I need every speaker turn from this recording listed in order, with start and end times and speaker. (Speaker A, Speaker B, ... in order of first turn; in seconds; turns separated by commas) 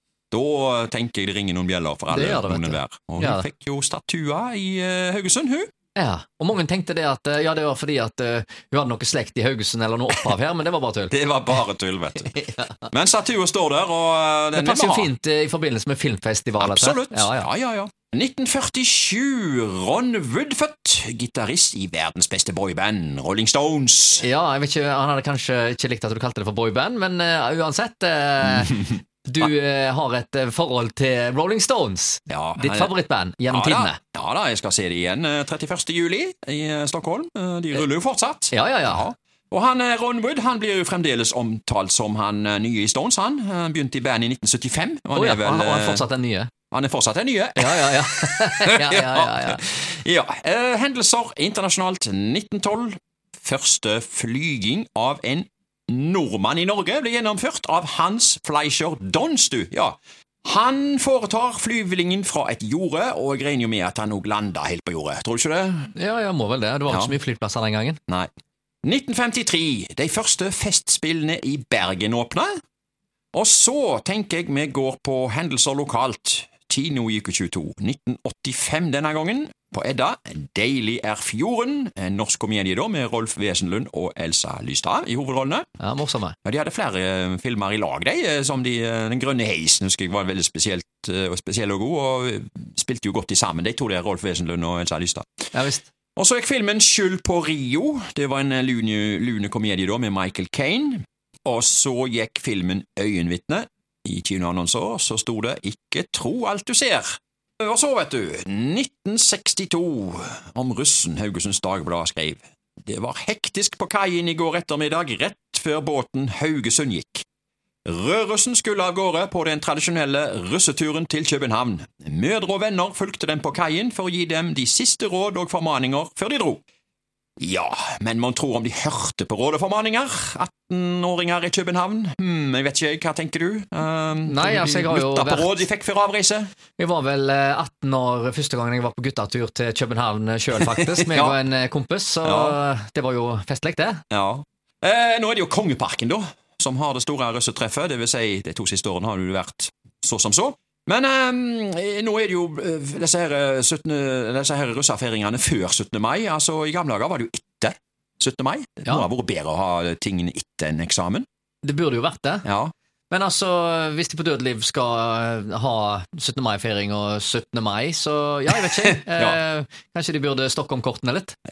Speaker A: 0.3-5.7, Speaker B: 2.1-3.5, Speaker B: 6.0-11.2, Speaker A: 11.1-15.1, Speaker B: 12.3-12.7, Speaker B: 14.6-17.5, Speaker A: 16.6-24.3, Speaker B: 24.2-34.0, Speaker A: 32.3-32.9, Speaker A: 33.5-46.0, Speaker B: 38.5-39.1, Speaker B: 45.1-46.5, Speaker A: 46.7-65.9, Speaker B: 47.6-49.6, Speaker B: 65.9-68.0, Speaker A: 66.9-67.1, Speaker A: 68.8-72.5, Speaker A: 73.3-85.7, Speaker B: 85.8-86.4, Speaker A: 86.4-95.3, Speaker B: 95.5-95.9, Speaker A: 96.2-117.2, Speaker A: 117.8-126.6, Speaker A: 127.4-136.5, Speaker B: 134.2-135.6, Speaker B: 136.8-144.0, Speaker A: 140.6-141.4, Speaker A: 142.2-142.6, Speaker A: 144.1-161.2, Speaker B: 161.6-162.5, Speaker A: 162.4-162.7, Speaker B: 163.1-171.3, Speaker A: 168.8-169.4